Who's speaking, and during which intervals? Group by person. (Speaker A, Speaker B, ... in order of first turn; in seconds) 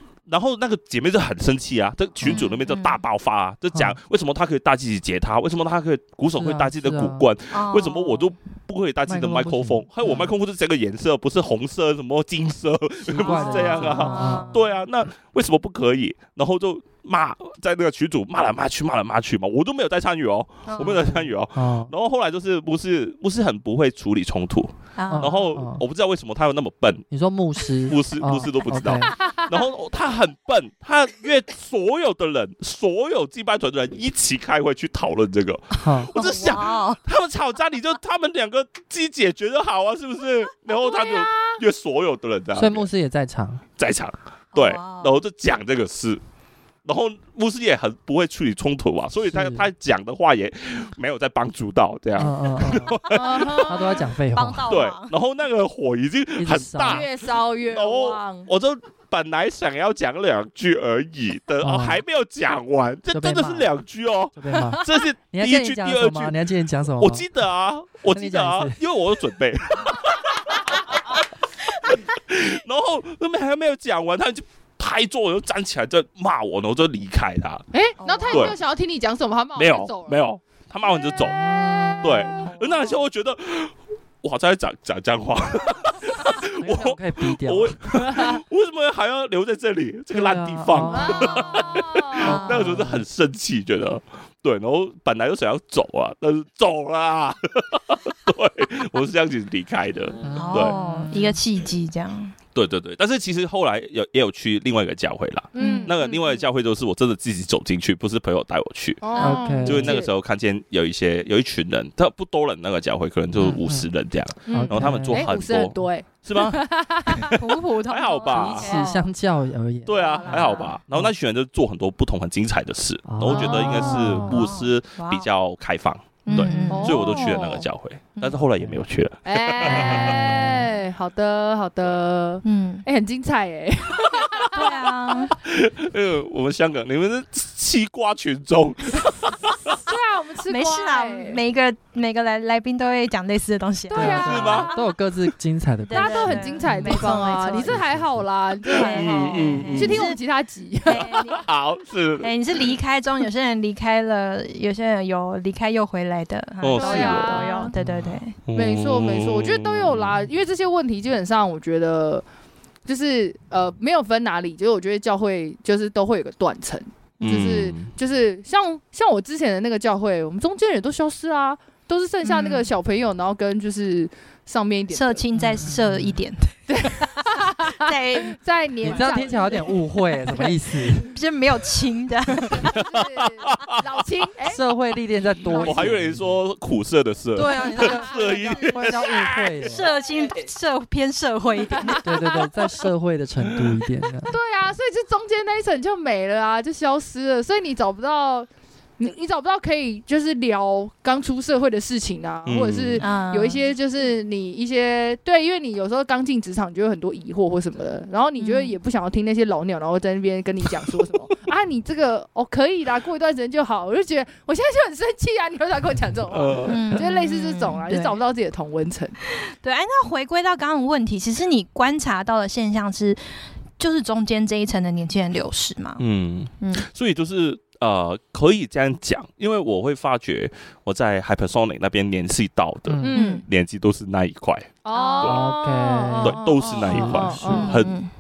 Speaker A: 0.3-27.1, 27.9-42.9, 43.8-46.2, 46.9-53.8, 54.7-66.4, 67.0-71.2, 71.8-77.7, 78.3-78.6, 79.5-81.4, 82.0-100.8, 102.5-118.7, 119.9-130.3, 135.4-139.7, 144.0-144.7, 148.7-150.0, 151.2-152.3, 156.6-157.5, 158.4-160.2, 167.2-167.9, 182.7-183.8, 185.5-189.7, 202.4-203.0, 216.3-216.9, 226.0-235.4, 236.2-237.9
Speaker B: 2.3-3.0, 7.5-8.3, 13.2-14.7, 20.7-21.0, 25.0-25.3, 36.1-37.0, 44.5-45.2, 54.3-55.1, 78.0-78.6, 82.5-82.9, 91.0-92.8, 100.3-102.3, 105.6-106.0, 109.1-109.8, 117.3-119.0, 120.2-120.7, 123.3-125.3, 126.3-127.4, 132.4-132.9, 134.5-135.4, 140.5-144.8, 145.9-147.8, 148.6-150.2, 150.8-151.5, 152.2-158.4, 167.2-167.5, 172.2-172.7, 174.9-179.5, 180.3-182.7, 185.5-185.8, 187.7-188.7, 189.6-192.5, 203.0-203.6, 208.4-208.8, 216.7-218.2, 219.3-223.2, 223.8-226.0, 226.6-226.9, 233.1-233.5, 234.9-235.4, 236.6-238.1
Speaker C: 3.7-4.0, 6.3-7.3, 9.1-10.3, 13.1-14.7, 20.9-21.9, 25.1-25.8, 27.1-29.2, 35.8-36.1, 42.5-43.6, 49.3-49.7, 52.2-54.8, 56.4-57.1, 61.6-62.0, 63.1-63.7, 64.4-67.3, 68.1-68.8, 86.6-88.0, 90.1-91.4, 92.2-93.0, 100.2-101.4, 109.2-109.9, 113.4-113.9, 114.5-115.3, 118.3-121.1, 123.1-124.4, 126.3-126.9, 129.9-130.7, 143.9-148.2, 157.8-158.2, 175.3-176.2, 178.8-181.2, 184.4-186.4, 187.3-189.9, 192.0-194.3, 232.9-233.2, 235.2-237.8
Speaker D: 40.7-41.6, 53.1-54.1, 56.9-58.5, 77.7-80.2, 81.2-82.1, 88.1-88.3, 90.9-92.4, 105.5-106.4, 109.0-110.1, 114.5-117.4, 118.6-119.0, 123.3-124.2, 126.7-127.7, 129.3-134.8, 139.7-141.4, 143.9-144.9, 145.9-151.4, 156.8-157.7, 158.6-162.2, 162.9-175.2, 176.7-180.4, 182.5-184.7, 191.8-192.4, 194.3-198.5, 199.0-219.2, 233.0-233.4, 234.8-237.8